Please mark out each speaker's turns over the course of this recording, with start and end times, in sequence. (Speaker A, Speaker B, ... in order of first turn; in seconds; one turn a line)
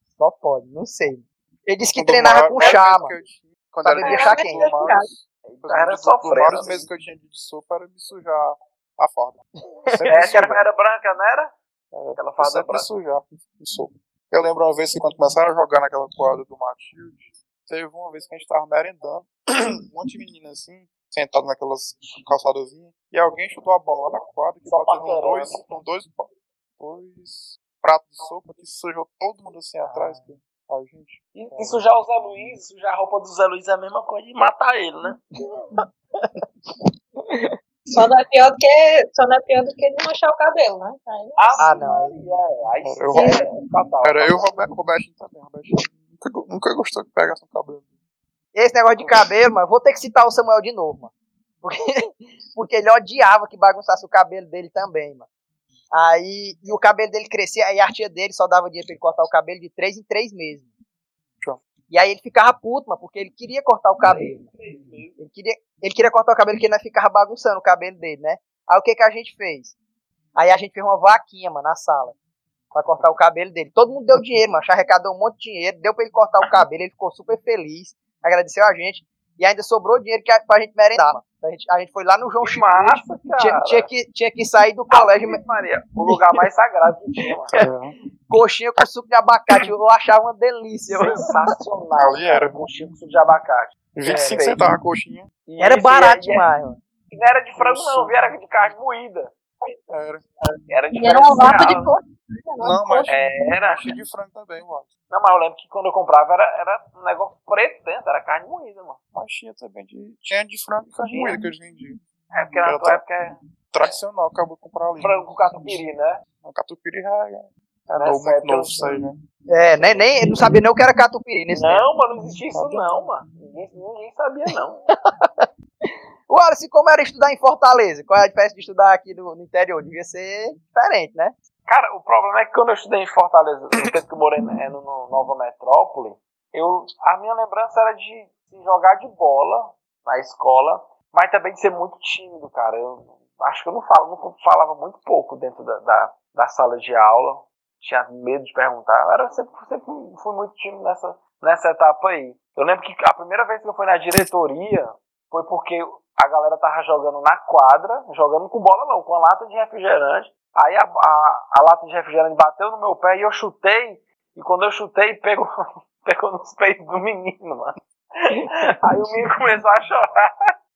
Speaker A: 0.2-3.1
Speaker B: 2.0-10.7
Speaker C: 2.6-2.8
Speaker A: 3.8-4.6
Speaker D: 4.0-5.1
Speaker C: 5.5-6.9
Speaker A: 9.8-10.2
Speaker C: 10.1-11.5
Speaker B: 11.9-31.8
Speaker C: 12.2-12.8
Speaker C: 24.6-25.6
Speaker A: 29.8-30.3
Speaker C: 31.3-35.2
Speaker A: 35.8-36.3
Speaker D: 37.9-41.9
Speaker C: 41.4-44.5
Speaker A: 41.6-42.1
Speaker B: 42.8-43.4
Speaker B: 44.0-47.9
Speaker A: 48.5-51.1
Speaker A: 51.6-55.2
Speaker A: 55.9-60.7
Speaker A: 61.9-64.5
Speaker C: 64.1-65.2
Speaker A: 65.2-69.7
Speaker A: 70.3-72.1
Speaker A: 72.7-85.4
Speaker C: 82.4-83.9
Speaker C: 84.9-87.6
Speaker A: 86.1-86.4
Speaker B: 87.5-88.0
Speaker A: 88.3-91.2
Speaker C: 90.9-94.6
Speaker B: 92.0-92.6
Speaker B: 94.0-95.3
Speaker A: 94.0-94.4
Speaker C: 95.5-96.5
Speaker A: 95.6-96.8
Speaker C: 97.1-99.8
Speaker B: 97.6-98.2
Speaker B: 99.9-100.2
Speaker C: 100.7-101.9
Speaker D: 100.9-103.2
Speaker B: 102.6-104.9
Speaker C: 103.1-103.8
Speaker C: 105.1-109.0
Speaker B: 109.1-112.0
Speaker C: 111.1-111.4
Speaker C: 112.3-113.9
Speaker B: 112.6-113.0
Speaker B: 113.7-115.8
Speaker C: 115.0-116.2
Speaker B: 116.4-119.1
Speaker C: 117.9-119.0
Speaker A: 119.5-121.8
Speaker C: 119.7-120.3
Speaker C: 121.5-124.9
Speaker B: 122.5-123.1
Speaker A: 125.1-131.3
Speaker C: 131.7-165.5
Speaker C: 166.0-167.7
Speaker C: 168.8-170.5